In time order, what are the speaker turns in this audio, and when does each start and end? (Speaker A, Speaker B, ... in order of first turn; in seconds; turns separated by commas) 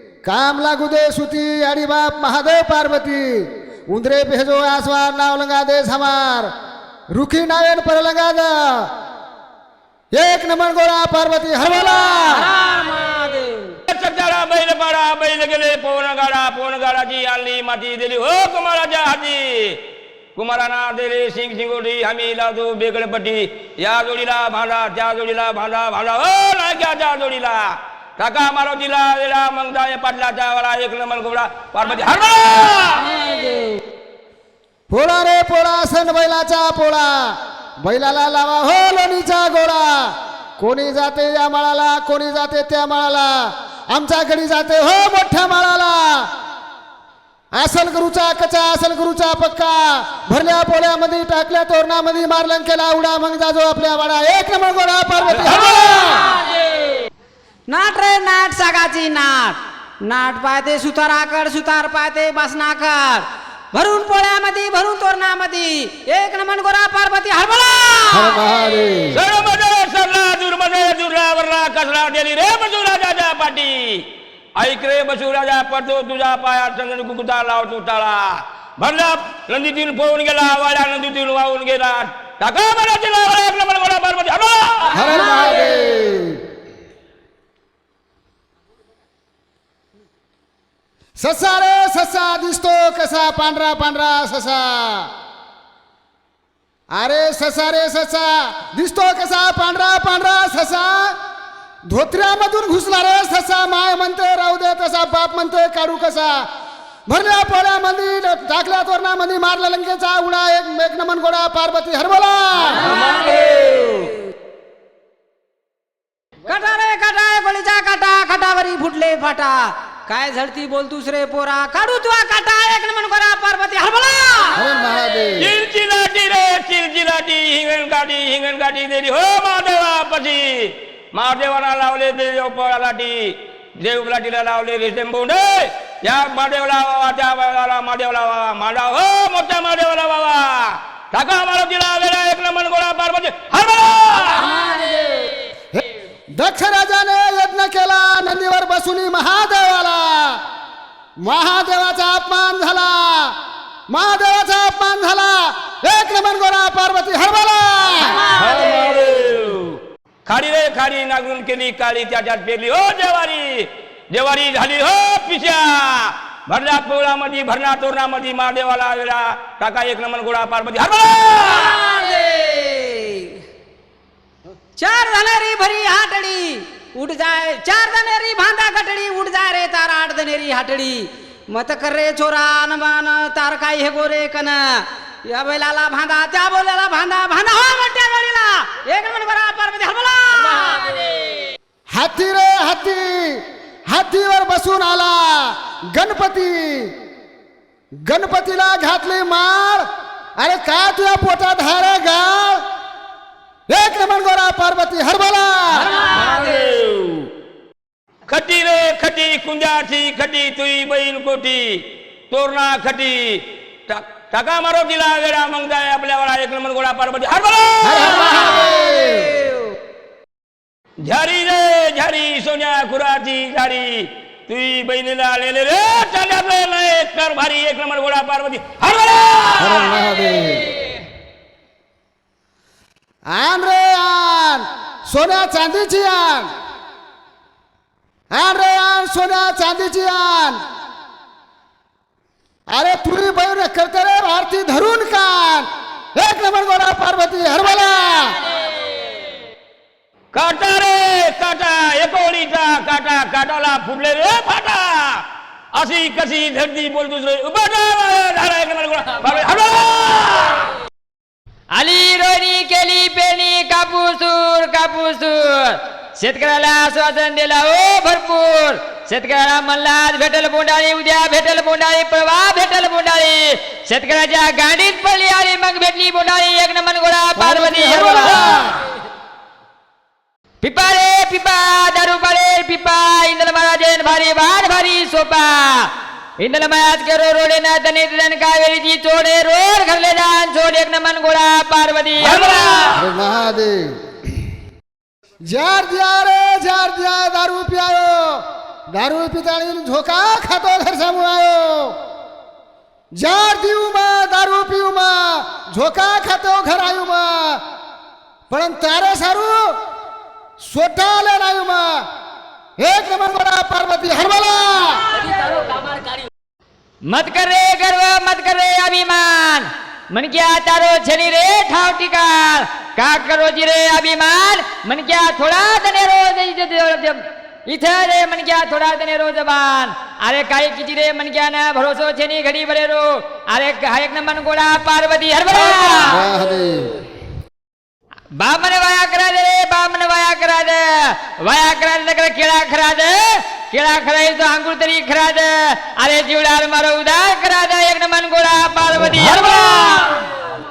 Speaker A: 0.2-6.5, Speaker A: 7.1-8.9, Speaker A: 10.1-12.5, Speaker B: 12.3-13.8, Speaker C: 13.9-19.8, Speaker C: 20.4-33.1, Speaker B: 33.0-33.8, Speaker A: 34.9-46.3, Speaker A: 47.5-56.3, Speaker B: 57.7-68.4, Speaker A: 68.1-69.2, Speaker C: 69.1-74.1, Speaker C: 74.6-85.0, Speaker A: 84.9-86.4, Speaker A: 91.2-95.1, Speaker A: 96.9-101.2, Speaker A: 101.9-106.5, Speaker A: 107.1-112.9, Speaker B: 112.7-114.1, Speaker C: 112.8-114.1, Speaker B: 116.5-124.6, Speaker A: 124.5-125.5, Speaker C: 125.4-144.6, Speaker B: 144.5-145.3, Speaker A: 145.7-150.4, Speaker A: 151.2-153.4, Speaker A: 153.9-158.2, Speaker B: 158.0-158.9, Speaker C: 158.3-171.8, Speaker B: 171.5-173.4, Speaker B: 174.8-191.1, Speaker A: 191.9-196.9, Speaker A: 198.1-199.9, Speaker A: 200.4-202.6, Speaker A: 203.7-206.0, Speaker C: 205.8-207.3, Speaker B: 205.9-206.5, Speaker C: 208.3-218.6, Speaker A: 217.8-219.4, Speaker B: 218.5-219.5, Speaker C: 221.0-230.0, Speaker A: 229.6-230.7, Speaker A: 233.3-236.5, Speaker A: 238.3-240.6, Speaker A: 242.7-248.5, Speaker C: 250.3-255.2, Speaker C: 255.7-260.7, Speaker D: 261.7-278.7, Speaker A: 277.4-278.8, Speaker D: 280.6-292.9, Speaker C: 292.2-293.1, Speaker A: 292.9-294.0, Speaker A: 295.5-301.9, Speaker A: 303.1-307.6, Speaker A: 308.5-309.8, Speaker A: 310.6-312.1, Speaker A: 312.8-315.2, Speaker D: 317.1-336.2, Speaker A: 336.1-337.0, Speaker D: 338.4-350.2